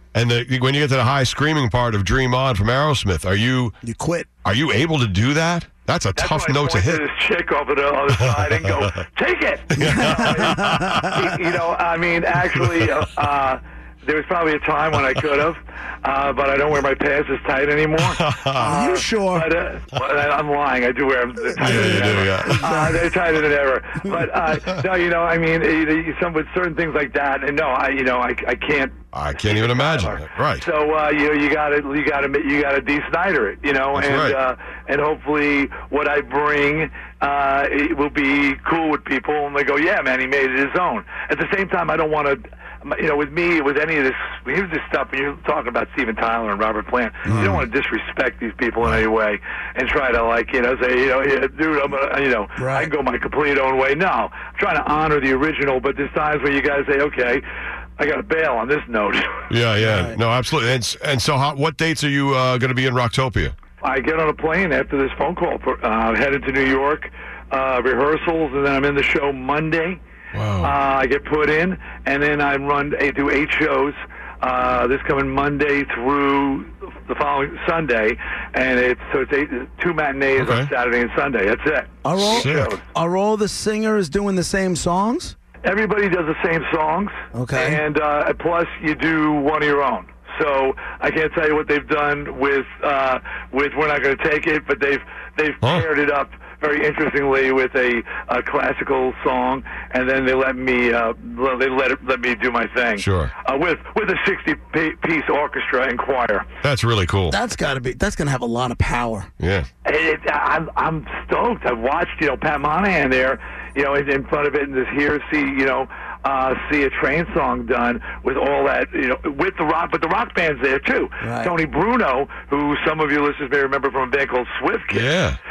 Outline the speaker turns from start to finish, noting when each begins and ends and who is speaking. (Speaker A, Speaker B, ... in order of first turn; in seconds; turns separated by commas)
Speaker A: 0.1-3.8, Speaker B: 3.8-4.3, Speaker A: 4.5-7.0, Speaker C: 6.2-57.4, Speaker A: 8.2-8.7, Speaker A: 9.7-11.0, Speaker B: 9.8-11.3, Speaker A: 18.0-18.7, Speaker B: 18.6-19.5, Speaker A: 21.6-22.7, Speaker B: 21.6-23.1, Speaker A: 29.1-30.7, Speaker A: 33.9-34.4, Speaker B: 47.2-47.7, Speaker A: 47.3-47.6, Speaker B: 52.6-52.9, Speaker C: 58.0-59.4, Speaker A: 59.5-63.5, Speaker B: 59.8-60.2, Speaker C: 63.8-70.0, Speaker A: 70.3-70.7, Speaker C: 70.6-82.8, Speaker A: 80.4-80.7, Speaker B: 82.0-85.4, Speaker A: 82.2-82.7, Speaker C: 85.6-106.5, Speaker B: 87.3-87.8, Speaker A: 103.0-103.3, Speaker A: 106.6-107.4, Speaker B: 107.3-109.3, Speaker A: 109.4-109.7, Speaker C: 109.8-125.1, Speaker B: 121.2-121.5, Speaker A: 124.9-125.4